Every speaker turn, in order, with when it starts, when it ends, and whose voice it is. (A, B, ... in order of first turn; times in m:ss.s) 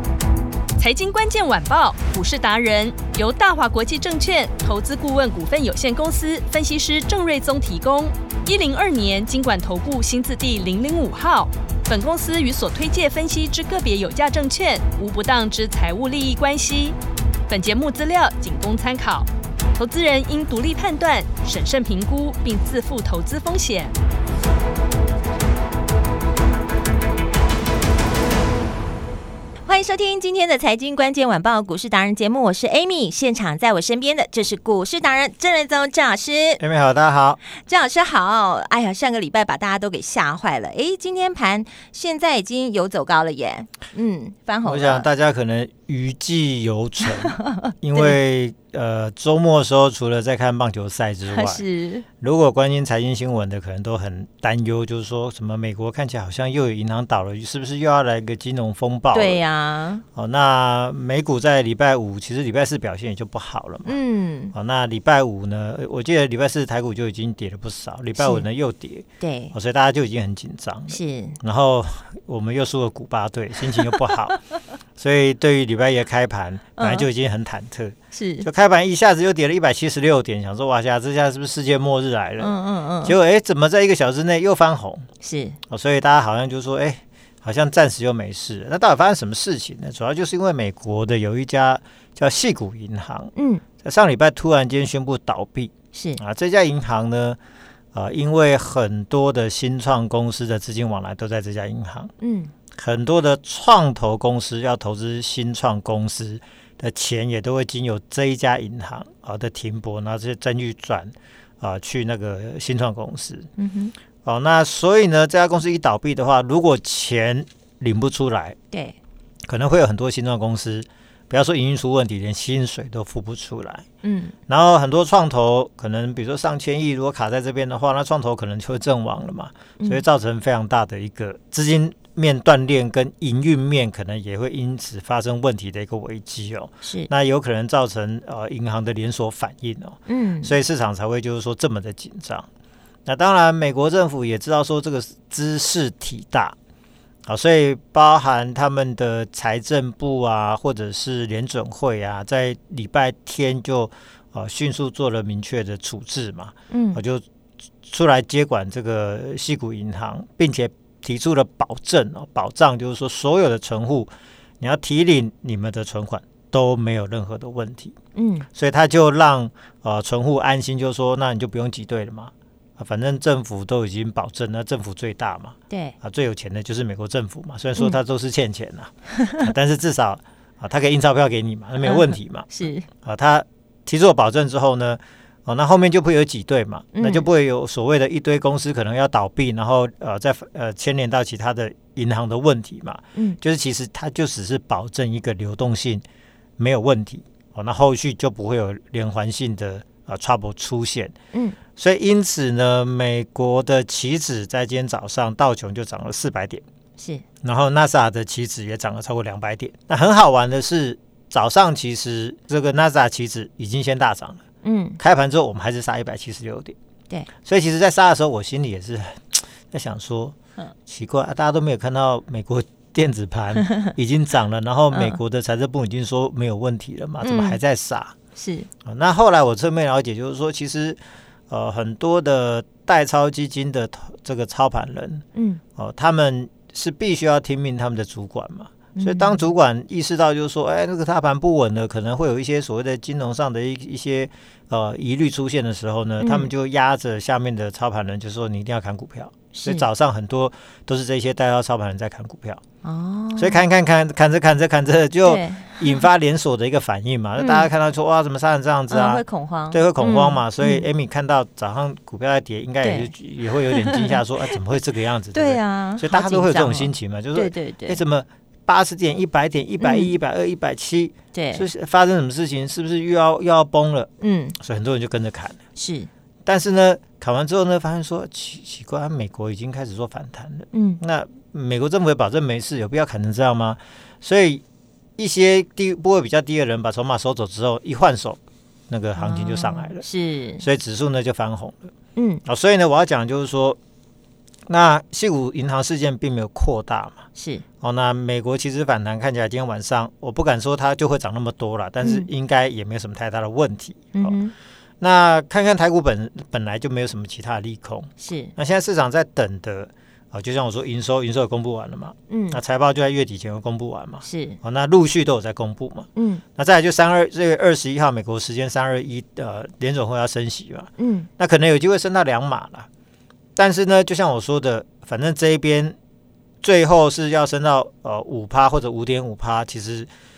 0:00.8-0:17.0 A
0:17.5-0:23.9 A
0:29.7-0:36.6 B
0:36.6-0:37.4 C
0:37.5-0:45.1 B
0:44.6-0:51.6 C
0:47.4-0:48.2 B
0:51.3-0:52.1 B
0:52.2-0:59.4 C
0:59.1-1:00.0 B
1:00.2-1:04.0 C
1:03.9-1:04.5 B
1:04.5-1:14.4 C
1:08.2-1:08.4 B
1:09.2-1:09.6 B
1:10.9-1:11.4 B
1:15.0-1:25.1 C
1:16.8-1:17.1 B
1:18.1-1:18.5 B
1:22.4-1:23.2 B
1:25.2-1:25.6 B
1:25.7-1:37.4 C
1:33.4-1:33.6 B
1:35.9-1:36.2 B
1:37.9-1:42.1 C
1:42.2-1:42.5 B
1:42.8-1:53.5 C
1:53.6-1:53.9 B
1:54.2-1:58.6 C
1:58.7-1:59.0 B
1:59.5-2:03.8 C
2:04.0-2:04.4 B
2:04.5-2:22.5 C
2:16.8-2:17.1 B
2:20.1-2:20.6 B
2:23.1-2:26.6 C
2:27.3-2:37.2 C
2:36.7-2:37.0 B
2:37.8-2:48.0 C
2:48.2-2:48.5 B
2:48.5-3:02.5 C
2:55.7-2:56.0 B
3:01.8-3:02.9 B
3:03.0-3:16.0 C
3:06.9-3:07.3 B
3:16.6-3:21.2 C
3:21.8-3:26.6 C
3:27.0-3:27.2 B
3:27.4-3:34.4 C
3:34.6-3:35.0 B
3:35.0-3:36.8 C
3:37.4-3:40.4 C
3:40.9-3:48.1 C
3:44.9-3:45.2 B
3:47.2-3:47.6 B
3:48.4-3:48.7 B
3:48.9-3:55.2 C
3:55.4-3:55.6 B
3:55.8-4:12.6 C
3:59.0-3:59.4 B
4:06.2-4:06.5 B
4:09.5-4:09.9 B
4:12.8-4:13.6 B
4:13.4-4:35.6 C
4:15.2-4:16.1 B
4:17.4-4:17.7 B
4:18.9-4:20.9 B
4:22.8-4:23.1 B
4:23.7-4:24.2 B
4:25.3-4:28.0 B
4:29.8-4:30.1 B
4:31.3-4:31.7 B
4:34.2-4:34.6 B
4:35.8-4:36.1 B
4:36.4-4:44.6 C
4:40.7-4:41.0 B
4:45.2-4:50.0 C
4:49.2-4:50.6 B
4:50.6-4:51.9 C
4:52.2-4:52.4 B
4:52.4-4:53.8 C
4:54.7-4:57.2 C
4:57.4-4:57.6 B
4:57.8-5:04.4 C
5:02.0-5:02.3 B
5:04.1-5:04.5 B
5:05.0-5:22.9 C
5:08.2-5:08.5 B
5:12.3-5:12.6 B
5:14.2-5:14.6 B
5:16.2-5:16.4 B
5:21.0-5:21.3 B
5:23.6-5:26.0 C
5:26.6-5:30.1 C